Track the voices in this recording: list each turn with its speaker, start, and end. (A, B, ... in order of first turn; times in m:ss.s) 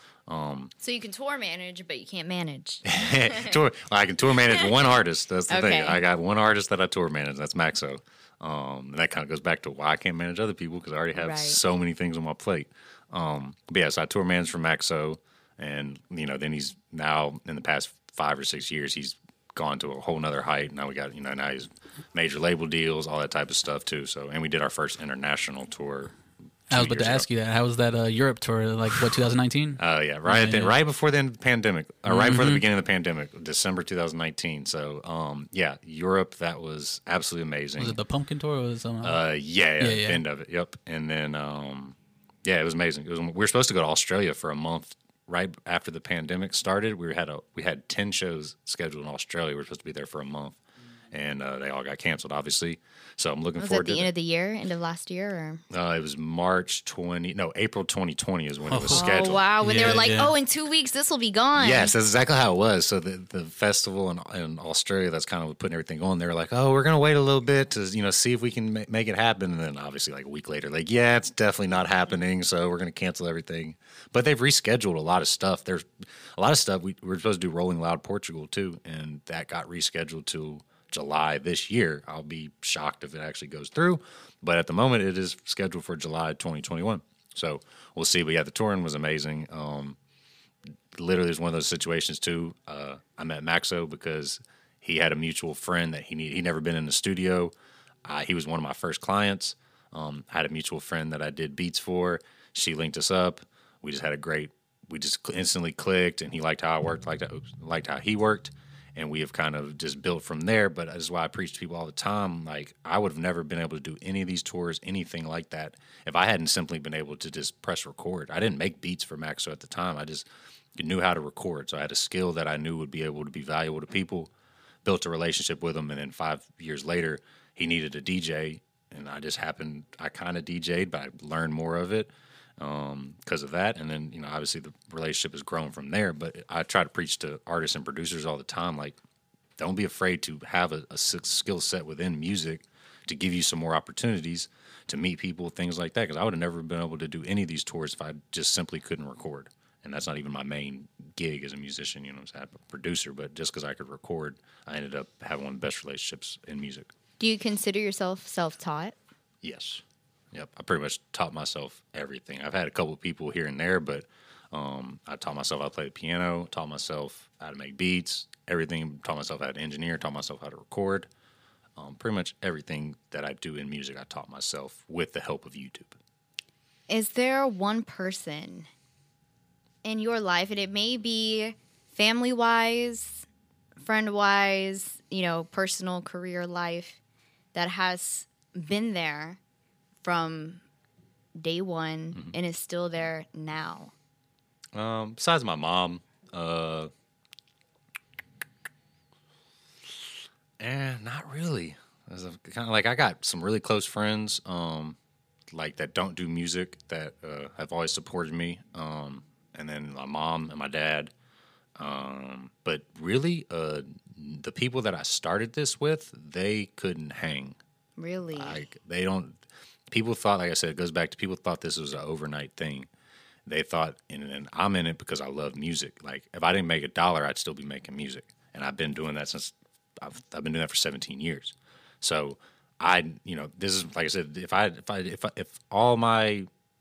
0:00.3-0:00.7 A
0:00.8-0:03.5 B
0:02.8-0:26.1 A
0:05.5-0:06.0 B
0:11.2-0:11.6 B
0:26.7-0:27.3 A
0:26.7-0:30.7 C
0:29.8-0:38.0 A
0:32.1-0:32.6 C
0:37.8-0:39.2 C
0:39.0-0:50.6 A
0:39.8-0:40.2 C
0:51.1-0:54.1 A
0:53.6-0:55.6 B
0:55.7-1:00.0 A
0:58.7-1:00.3 C
0:58.9-1:01.9 B
1:01.6-1:30.0 A
1:30.9-1:37.5 A
1:38.0-2:04.3 A
2:04.8-2:19.0 A
2:19.6-2:36.9 A
2:37.2-2:39.0 B
2:39.4-2:51.1 A
2:51.8-2:56.0 A
2:56.9-2:58.7 B
2:59.8-3:03.3 B
3:03.8-3:07.0 B
3:07.5-3:09.4 B
3:10.0-3:10.6 B
3:11.4-3:13.9 B
3:14.8-3:16.9 A
3:20.6-3:25.0 A
3:25.5-3:31.1 A
3:31.8-3:37.6 A
3:38.0-3:38.6 B
3:38.4-3:39.4 A
3:39.9-3:42.9 A
3:43.5-3:56.5 A